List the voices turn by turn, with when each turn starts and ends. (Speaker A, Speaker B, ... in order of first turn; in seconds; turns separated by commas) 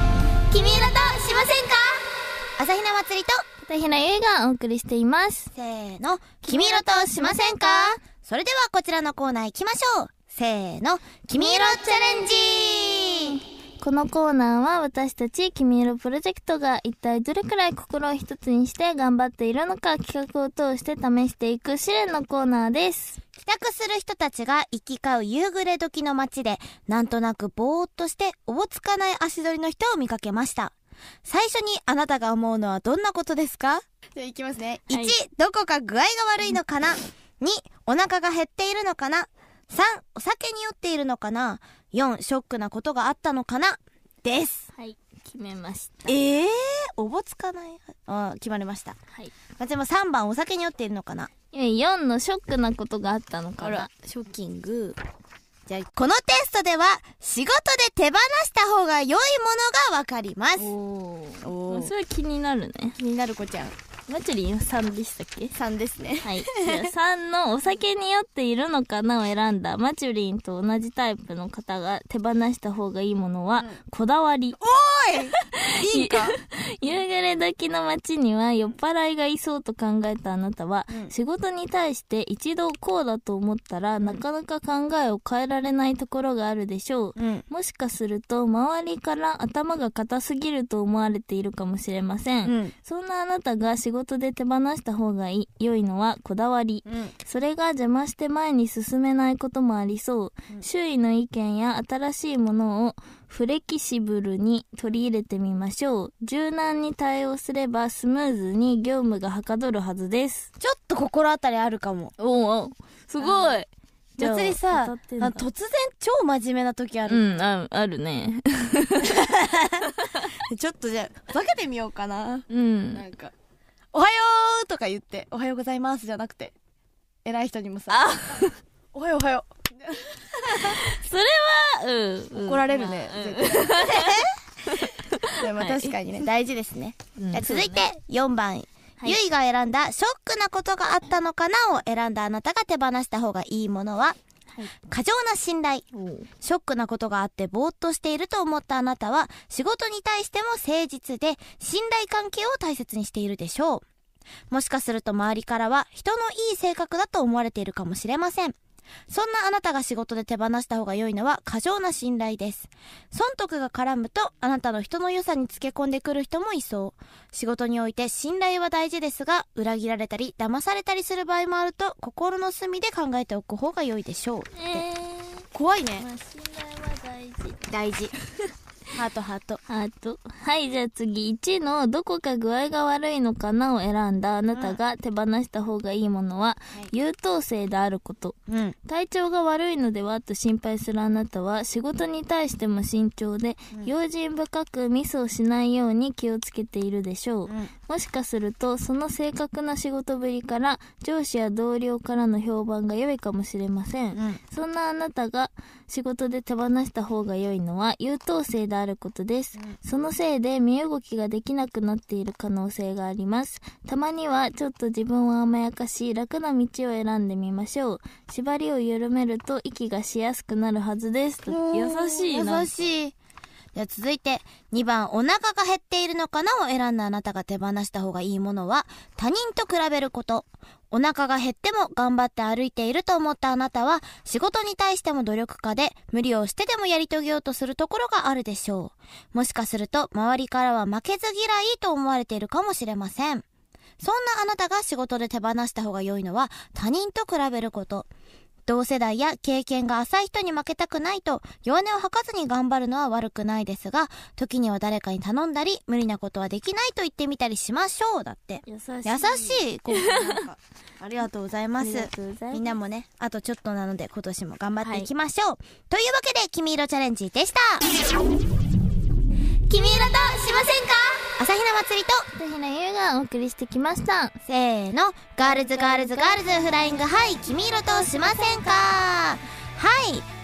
Speaker A: 0.5-3.4, Speaker B: 3.6-5.5, Speaker A: 5.5-13.4, Speaker B: 6.4-8.0, Speaker B: 13.2-23.2, Speaker A: 23.4-30.7, Speaker A: 31.2-33.8, Speaker C: 34.2-34.8, Speaker A: 34.7-44.7, Speaker B: 34.9-35.2, Speaker B: 44.7-46.1, Speaker A: 46.1-49.0, Speaker A: 49.6-51.3, Speaker B: 51.5-53.9, Speaker A: 53.8-55.0, Speaker A: 55.7-60.7, Speaker B: 60.6-63.0, Speaker C: 61.4-61.9, Speaker C: 63.0-63.7, Speaker B: 64.1-65.5, Speaker C: 65.6-66.9, Speaker B: 66.2-74.6, Speaker C: 74.6-76.3, Speaker B: 75.5-110.5, Speaker A: 110.6-112.1, Speaker B: 112.2-115.5, Speaker A: 114.2-117.2, Speaker B: 117.1-119.2, Speaker A: 119.2-119.8, Speaker A: 120.6-121.2, Speaker C: 120.7-123.3, Speaker B: 122.5-123.0, Speaker C: 123.9-126.5, Speaker C: 127.2-128.0, Speaker B: 127.9-128.5, Speaker C: 128.9-130.8, Speaker B: 130.5-135.9, Speaker C: 132.4-134.3, Speaker C: 135.4-136.3, Speaker A: 136.1-144.2, Speaker B: 137.2-137.8, Speaker A: 144.8-145.9, Speaker B: 145.9-146.3, Speaker A: 146.4-153.8, Speaker A: 154.5-158.6, Speaker A: 159.1-174.8, Speaker B: 174.5-177.7, Speaker A: 175.5-176.0, Speaker A: 177.7-178.1, Speaker A: 178.9-179.6, Speaker B: 179.7-222.8, Speaker A: 188.5-188.8, Speaker A: 221.7-223.1, Speaker A: 223.7-243.4, Speaker A: 244.0-248.1, Speaker A: 248.7-268.1, Speaker B: 258.6-260.4, Speaker B: 261.8-262.7, Speaker B: 264.8-265.1, Speaker A: 269.7-272.3, Speaker B: 272.3-274.4, Speaker A: 274.4-280.3, Speaker B: 275.7-276.4